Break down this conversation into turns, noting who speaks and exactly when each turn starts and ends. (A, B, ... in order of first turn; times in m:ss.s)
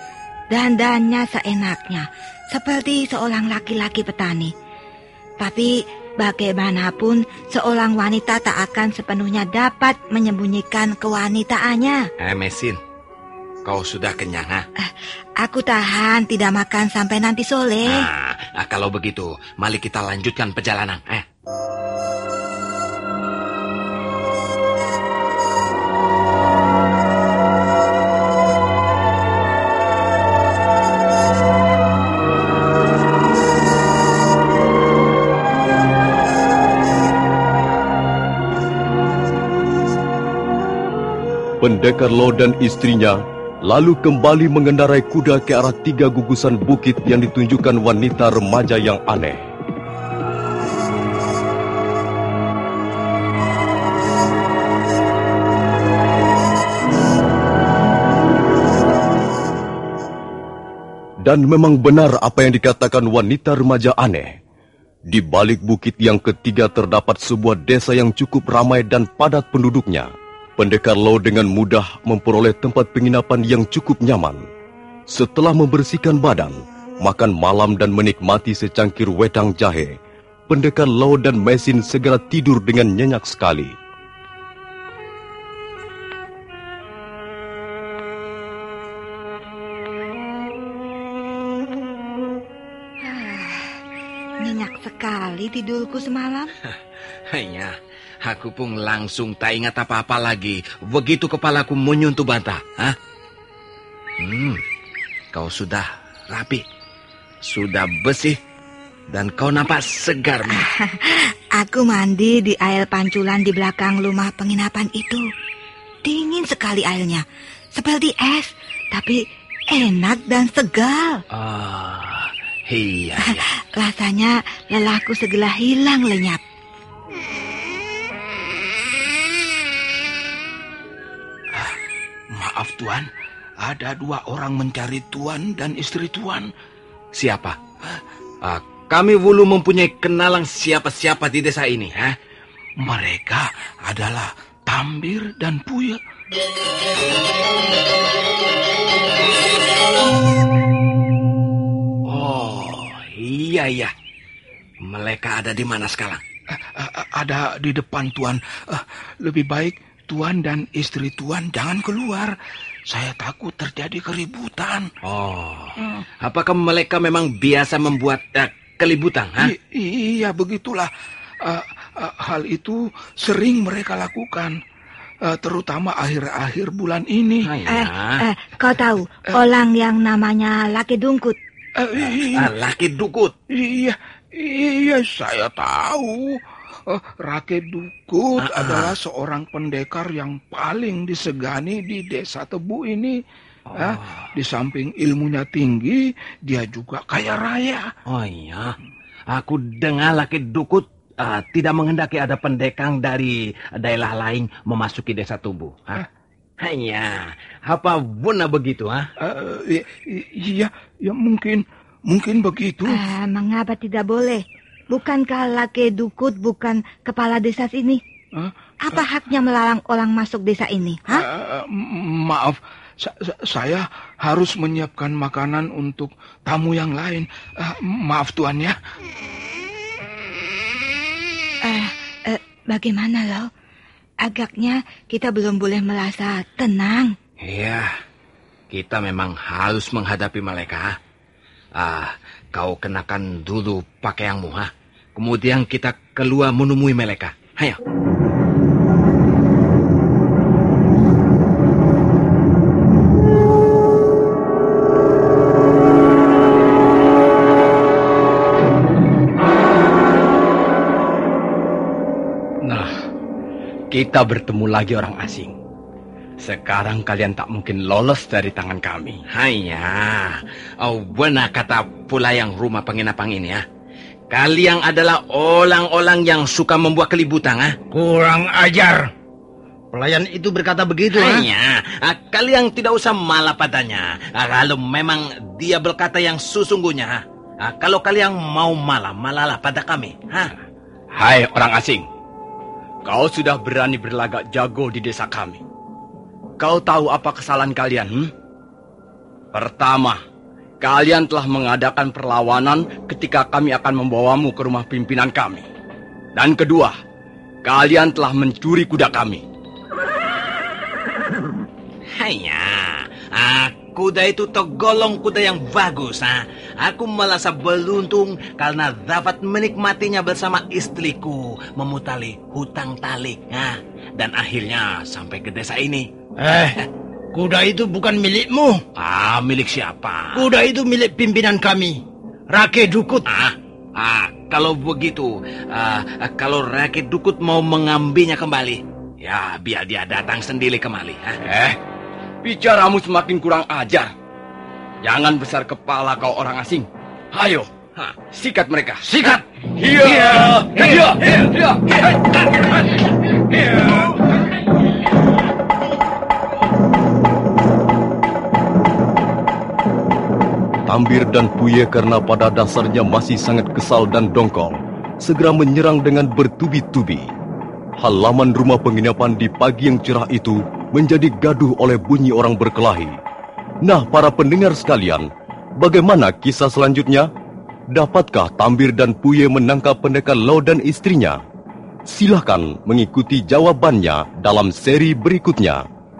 0:00.5-0:04.5 A
0:05.4-0:12.0 A
0:12.2-0:12.8 B
0:13.6-0:14.6 B
0:14.8-0:18.1 A
0:17.8-0:21.2 B
0:41.6-0:49.4 C
1:01.2-1:04.3 C
1:05.1-1:14.4 C
1:15.1-1:20.0 C
1:20.5-1:23.7 C
1:33.0-1:33.8 A
1:34.4-1:36.5 A
1:37.3-1:43.0 B
1:44.2-1:44.6 B
1:45.3-1:46.6 B
1:47.4-1:48.4 B
1:49.1-1:50.7 B
1:50.5-1:55.2 A
1:56.0-1:57.2 A
1:57.7-2:01.2 A
2:01.3-2:03.5 B
2:03.2-2:06.4 A
2:12.3-2:13.1 D
2:13.6-2:16.5 D
2:17.1-2:17.6 B
2:18.4-2:22.2 B
2:22.8-2:26.0 D
2:32.1-2:33.9 B
2:34.8-2:36.2 B
2:36.6-2:42.3 D
2:42.9-2:44.9 D
2:45.0-2:49.5 B
2:49.4-2:50.9 D
2:51.4-2:54.6 D
2:55.2-2:57.5 D
2:57.4-2:58.2 B
2:57.7-3:01.4 A
3:01.8-3:02.5 D
3:02.0-3:03.3 B
3:03.5-3:13.2 D
3:08.4-3:08.9 B
3:13.7-3:14.3 B
3:13.7-3:17.9 D
3:18.1-3:18.8 B
3:19.3-3:26.0 B
3:26.6-3:29.1 B
3:29.2-3:33.0 D
3:32.9-3:38.0 A
3:38.4-3:39.0 D
3:38.8-3:41.2 A
3:41.1-3:48.8 D
3:51.6-3:53.5 A
3:54.2-3:57.2 A
3:57.4-3:57.9 B
3:58.7-4:01.0 B
4:01.8-4:07.8 B
4:22.6-4:22.9 E
4:23.9-4:25.6 E
4:26.4-4:29.2 E
4:29.3-4:33.6 B
4:34.3-4:37.8 B
4:37.9-4:39.1 F
4:39.9-4:41.5 F
4:41.1-4:50.5 B
4:51.1-4:52.0 E
4:53.0-4:55.6 E
4:56.6-4:58.3 E
4:59.5-5:00.2 E
5:00.8-5:05.6 E
5:06.4-5:07.0 E
5:07.6-5:09.4 E
5:12.2-5:26.1 B
5:26.4-5:26.8 F
5:27.3-5:28.8 F
5:29.0-5:30.5 B
5:30.3-5:33.3 F
5:33.2-5:41.4 B
5:41.4-5:41.8 E
5:42.4-5:44.1 E
5:45.0-5:47.7 E
5:48.3-5:52.2 E
5:50.3-5:51.2 B
5:53.5-5:54.2 E
6:00.9-6:07.3 C
6:08.0-6:13.2 C
6:13.8-6:15.3 C
6:15.8-6:17.3 C
6:17.9-6:21.4 C
6:22.1-6:25.8 C